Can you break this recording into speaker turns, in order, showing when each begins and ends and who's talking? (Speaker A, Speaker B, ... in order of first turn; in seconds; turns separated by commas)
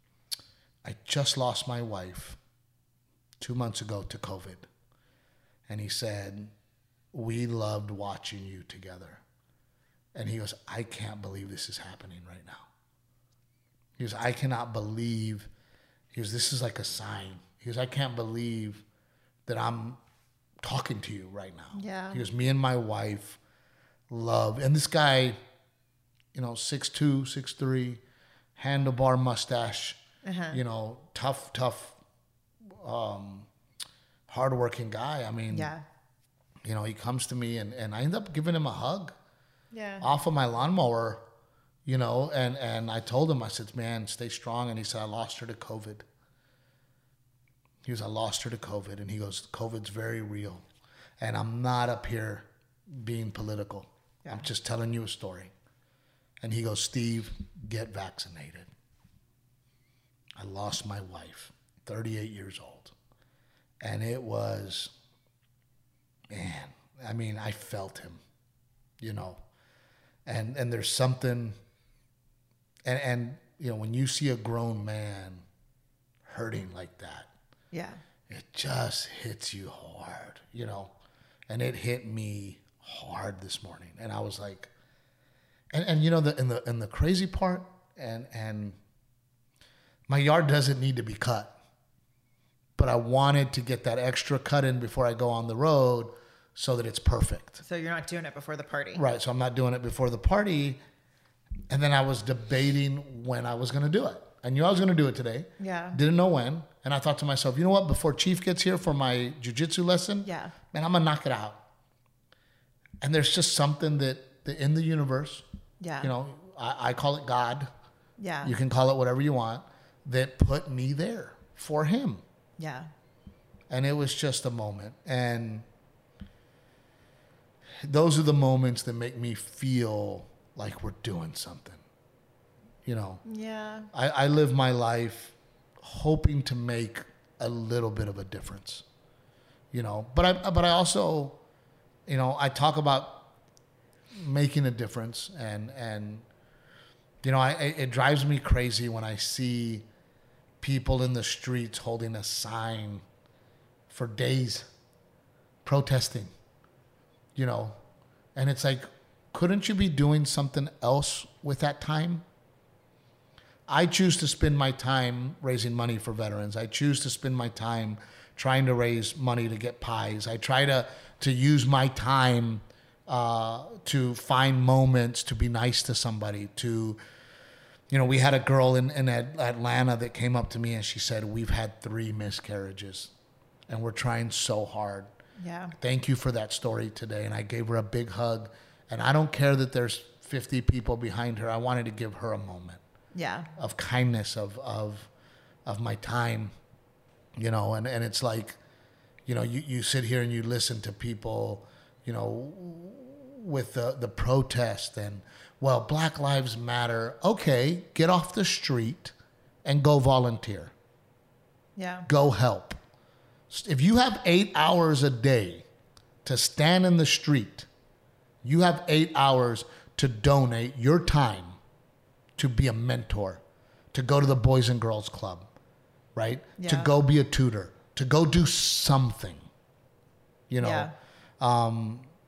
Speaker A: 0.8-2.4, Speaker A: 3.4-4.7, Speaker A: 5.7-6.5, Speaker A: 7.1-9.2, Speaker A: 10.1-12.7, Speaker A: 14.0-15.5, Speaker A: 16.1-18.8, Speaker A: 19.4-20.0, Speaker A: 20.6-23.4, Speaker B: 21.7-22.2, Speaker A: 24.1-25.4, Speaker A: 26.3-28.0, Speaker A: 28.6-30.0, Speaker B: 30.2-30.6, Speaker A: 30.5-32.0, Speaker A: 32.8-33.5, Speaker A: 34.3-35.7, Speaker B: 35.5-35.8, Speaker A: 36.6-39.1, Speaker B: 39.7-40.1, Speaker A: 40.0-41.2, Speaker A: 41.9-46.0, Speaker A: 47.8-50.6, Speaker A: 51.2-55.5, Speaker A: 56.4-58.7, Speaker A: 60.4-62.9, Speaker A: 63.8-64.9, Speaker A: 66.3-68.2, Speaker A: 69.0-69.4, Speaker A: 70.3-71.6, Speaker A: 72.8-75.4, Speaker A: 76.2-77.3, Speaker B: 77.7-78.0, Speaker A: 78.3-80.9, Speaker A: 81.5-84.7, Speaker A: 85.7-88.8, Speaker A: 90.1-91.5, Speaker A: 92.8-97.6, Speaker B: 97.6-99.0, Speaker A: 99.0-100.8, Speaker A: 101.7-111.6, Speaker B: 105.6-106.0, Speaker B: 110.2-110.5, Speaker A: 113.0-115.5, Speaker B: 115.8-116.1, Speaker A: 116.0-117.7, Speaker B: 118.2-118.5, Speaker A: 118.4-122.2, Speaker B: 122.6-122.9, Speaker A: 123.7-125.7, Speaker A: 127.8-131.8, Speaker A: 132.9-133.2, Speaker B: 133.3-133.9, Speaker A: 133.9-138.8, Speaker A: 139.7-141.4, Speaker A: 142.1-143.2, Speaker A: 144.1-146.3, Speaker A: 147.2-149.9, Speaker A: 150.6-153.1, Speaker A: 153.9-154.7, Speaker A: 155.6-156.3, Speaker A: 157.4-157.8, Speaker A: 158.3-162.2, Speaker A: 163.7-177.0, Speaker A: 177.9-183.1, Speaker A: 183.7-185.1, Speaker B: 185.4-185.7, Speaker A: 185.8-192.8, Speaker B: 193.1-193.5, Speaker A: 193.6-195.1, Speaker A: 195.7-196.5, Speaker A: 197.4-198.6, Speaker A: 199.3-210.7, Speaker B: 211.8-212.1, Speaker A: 212.1-212.8, Speaker A: 213.5-215.7, Speaker A: 216.2-217.7, Speaker A: 218.4-221.6, Speaker A: 222.4-223.4, Speaker A: 223.9-225.5, Speaker A: 226.1-229.4, Speaker B: 226.6-226.9, Speaker A: 230.5-232.1, Speaker B: 230.6-230.9